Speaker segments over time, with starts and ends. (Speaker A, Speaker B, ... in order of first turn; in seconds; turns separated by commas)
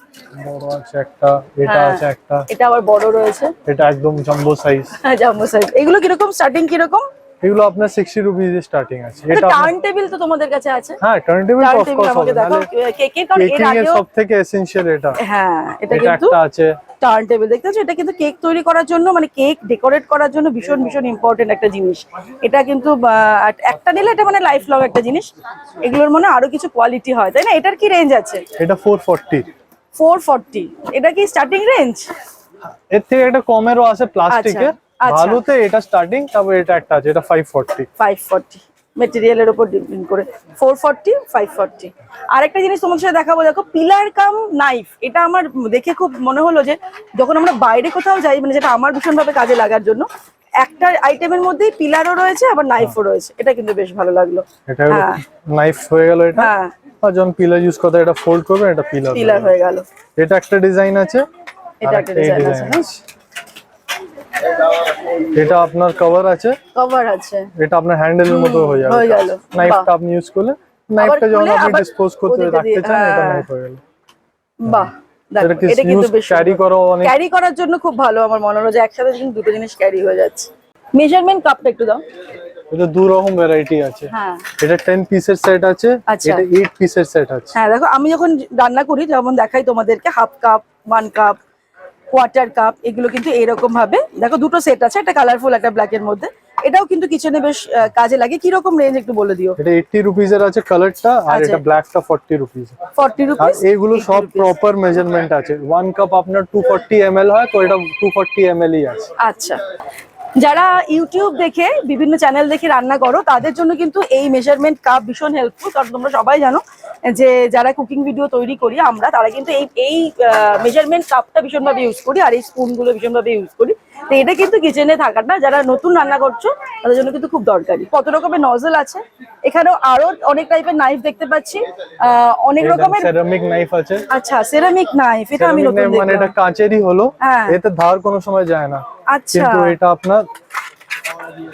Speaker A: 0.4-2.5, Speaker B: 1.6-3.5, Speaker A: 3.6-4.9, Speaker B: 5.0-7.0, Speaker A: 7.4-9.7, Speaker B: 9.3-11.0, Speaker A: 11.0-12.7, Speaker B: 11.6-14.0, Speaker A: 13.3-15.2, Speaker B: 15.2-16.4, Speaker A: 15.9-16.7, Speaker B: 17.0-25.3, Speaker B: 25.8-28.4, Speaker A: 28.6-29.5, Speaker B: 29.9-32.1, Speaker A: 32.7-37.9, Speaker B: 34.3-35.4, Speaker B: 38.0-50.0, Speaker B: 50.6-55.2, Speaker A: 54.7-56.5, Speaker B: 56.4-56.7, Speaker A: 57.0-59.5, Speaker B: 59.1-59.8, Speaker A: 60.2-61.2, Speaker B: 61.8-62.8, Speaker A: 61.8-63.0, Speaker A: 65.3-66.6, Speaker B: 66.7-67.5, Speaker A: 67.5-73.8, Speaker B: 68.3-69.9, Speaker B: 71.0-73.5, Speaker B: 74.6-82.0, Speaker A: 74.7-77.1, Speaker A: 82.7-87.6, Speaker B: 84.1-84.5, Speaker B: 86.1-86.4, Speaker B: 87.5-91.4, Speaker B: 92.1-99.6, Speaker A: 99.6-102.8, Speaker B: 101.3-101.6, Speaker B: 103.0-104.5, Speaker A: 103.4-109.1, Speaker B: 109.2-109.6, Speaker B: 110.3-133.1, Speaker A: 132.6-134.1, Speaker B: 134.1-136.3, Speaker A: 135.3-140.2, Speaker B: 137.2-137.6, Speaker B: 139.1-139.8